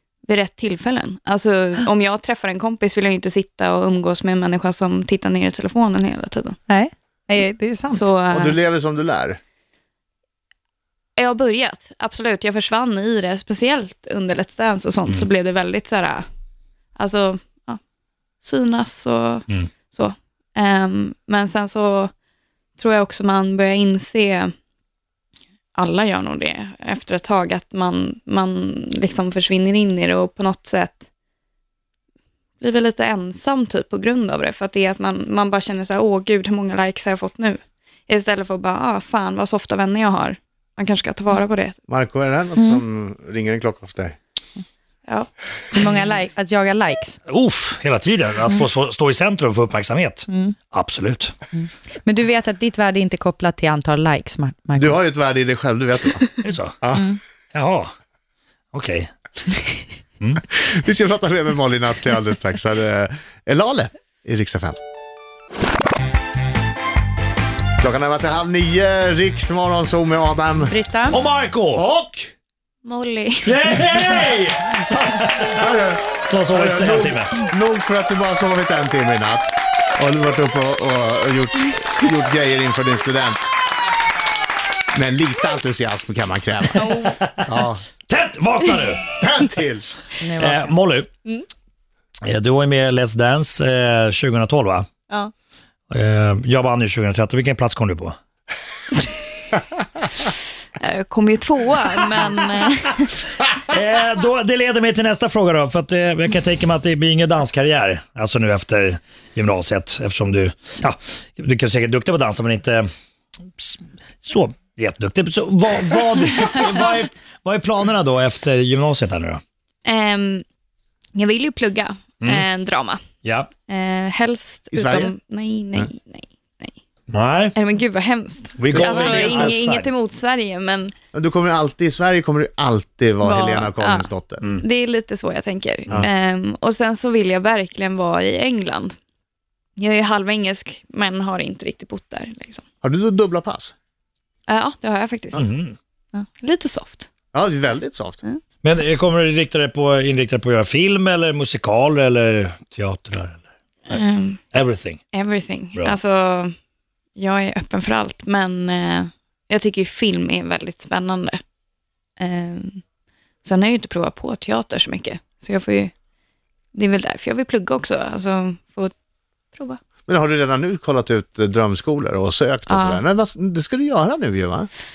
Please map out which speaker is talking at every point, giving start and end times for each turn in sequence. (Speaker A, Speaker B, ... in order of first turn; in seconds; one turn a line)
Speaker A: 0.3-6.6
Speaker B: 6.7-8.1
Speaker A: 7.9-8.6
Speaker C: 8.3-9.4
Speaker A: 11.2-16.2
Speaker A: 16.9-17.8
Speaker A: 18.4-22.1
Speaker A: 22.8-24.5
Speaker A: 25.8-31.0
Speaker A: 32.6-41.8
Speaker C: 41.9-44.1
Speaker B: 42.6-42.8
Speaker B: 45.7-47.2
Speaker D: 47.3-51.3
Speaker B: 50.3-50.5
Speaker B: 51.5-55.0
Speaker C: 54.8-56.2
Speaker D: 56.4-56.8
Speaker C: 56.8-57.1
Speaker B: 56.9-57.2
Speaker D: 57.5-57.9
Speaker D: 58.7-59.1
Speaker C: 60.5-64.8
Speaker C: 67.8-70.7
Speaker B: 70.6-71.2
Speaker D: 71.1-71.8
Speaker C: 71.7-72.3
Speaker A: 72.8-73.7
Speaker D: 73.4-75.4
Speaker C: 74.8-83.4
Speaker D: 76.2-77.3
Speaker C: 84.9-87.8
Speaker A: 86.7-87.2
Speaker D: 88.1-89.1
Speaker C: 89.2-89.9
Speaker B: 90.2-90.7
Speaker D: 90.4-91.1
Speaker D: 92.2-94.9
Speaker D: 95.9-98.2
Speaker A: 100.8-103.4
Speaker D: 103.7-112.9
Speaker D: 113.6-119.4
Speaker A: 119.8-120.4
Speaker A: 121.1-123.0
Speaker D: 123.2-123.5
Speaker A: 123.7-126.7
Speaker C: 124.7-125.1
Speaker D: 127.1-127.5
Speaker A: 127.5-130.9
Speaker D: 128.6-129.9
Speaker C: 128.7-129.6
Speaker C: 131.1-134.4
Speaker A: 133.2-138.9
Speaker A: 139.8-142.6
Speaker C: 142.8-143.7
Speaker A: 144.5-145.4
Speaker D: 145.3-145.8
Speaker A: 146.1-147.1
Speaker C: 147.3-148.2
Speaker D: 148.6-154.0
Speaker A: 153.9-154.4
Speaker D: 154.5-155.0
Speaker A: 155.1-156.5
Speaker A: 157.2-161.4
Speaker A: 162.2-162.8
Speaker A: 163.4-165.9
Speaker A: 166.7-168.9
Speaker A: 169.5-169.8
Speaker C: 170.1-174.7
Speaker A: 172.7-173.0